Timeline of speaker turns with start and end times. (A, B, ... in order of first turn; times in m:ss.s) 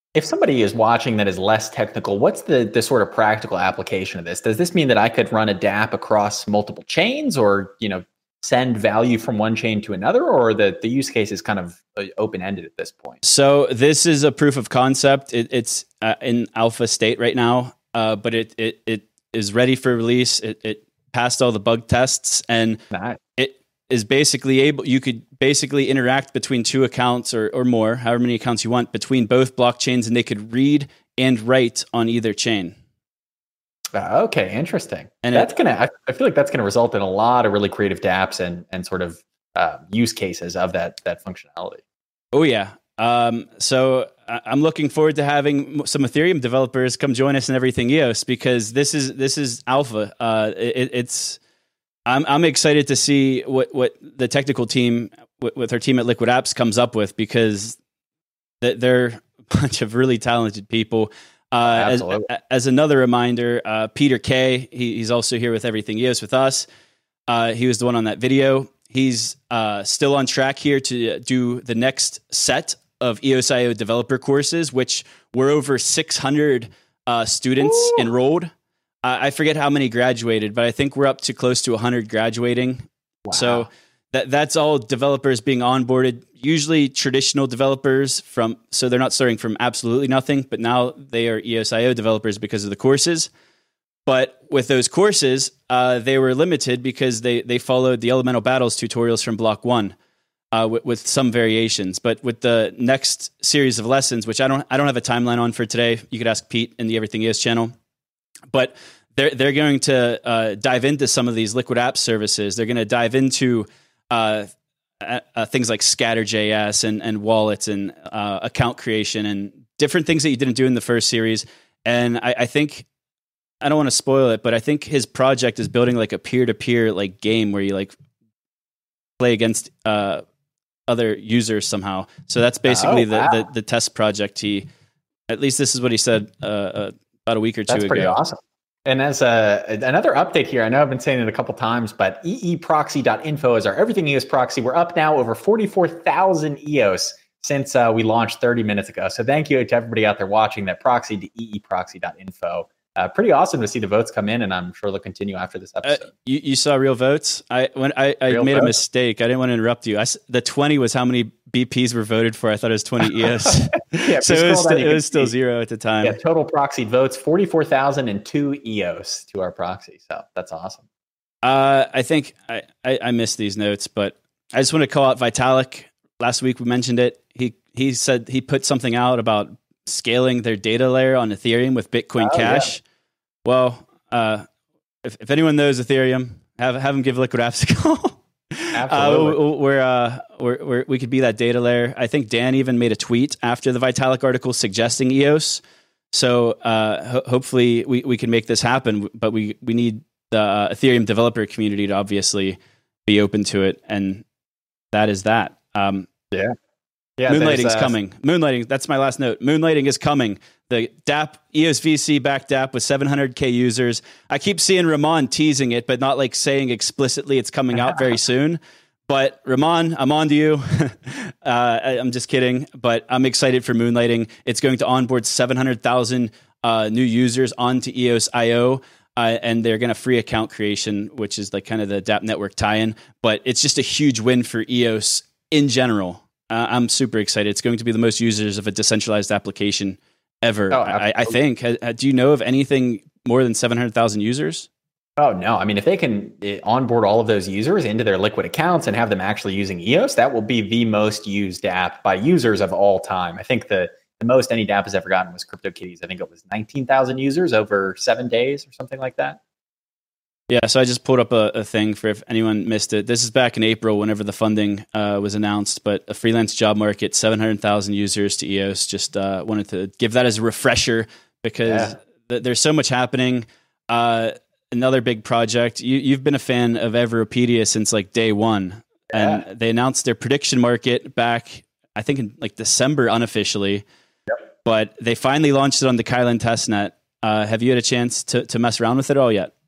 0:00.1-0:13.2 A
0:13.2-0:22.8 B
0:22.9-0:23.2 A
0:23.4-0:32.8 B
0:33.9-0:41.8 A
0:35.2-0:35.5 B
0:42.3-0:51.4 B
0:52.1-0:57.8 B
0:58.6-1:06.6 B
1:01.6-1:02.3 A
1:07.3-1:18.5 B
1:17.6-1:18.1 A
1:19.0-1:33.3 B
1:23.2-1:23.7 A
1:34.0-1:39.9 B
1:40.5-1:47.7 B
1:48.5-1:54.5 B
1:55.0-2:02.8 B
2:03.6-2:07.9 B
2:09.2-2:10.2 B
2:10.9-2:14.7 B
2:12.7-2:13.4 A
2:15.3-2:18.1 B
2:17.7-2:36.1 A
2:35.8-2:46.2 B
2:38.3-2:38.7 A
2:43.4-2:45.3 A
2:46.0-2:50.8 A
2:51.4-3:02.8 B
3:02.2-3:02.7 A
3:03.4-3:04.4 B
3:05.0-3:24.2 B
3:08.7-3:09.4 A
3:24.9-3:26.1 B
3:27.2-3:27.9 A
3:27.3-4:04.7 B
4:00.7-4:01.4 A
4:05.2-4:19.4 A
4:20.5-4:43.8 B
4:31.6-4:31.9 A
4:39.1-4:39.4 A
4:44.6-4:49.5 B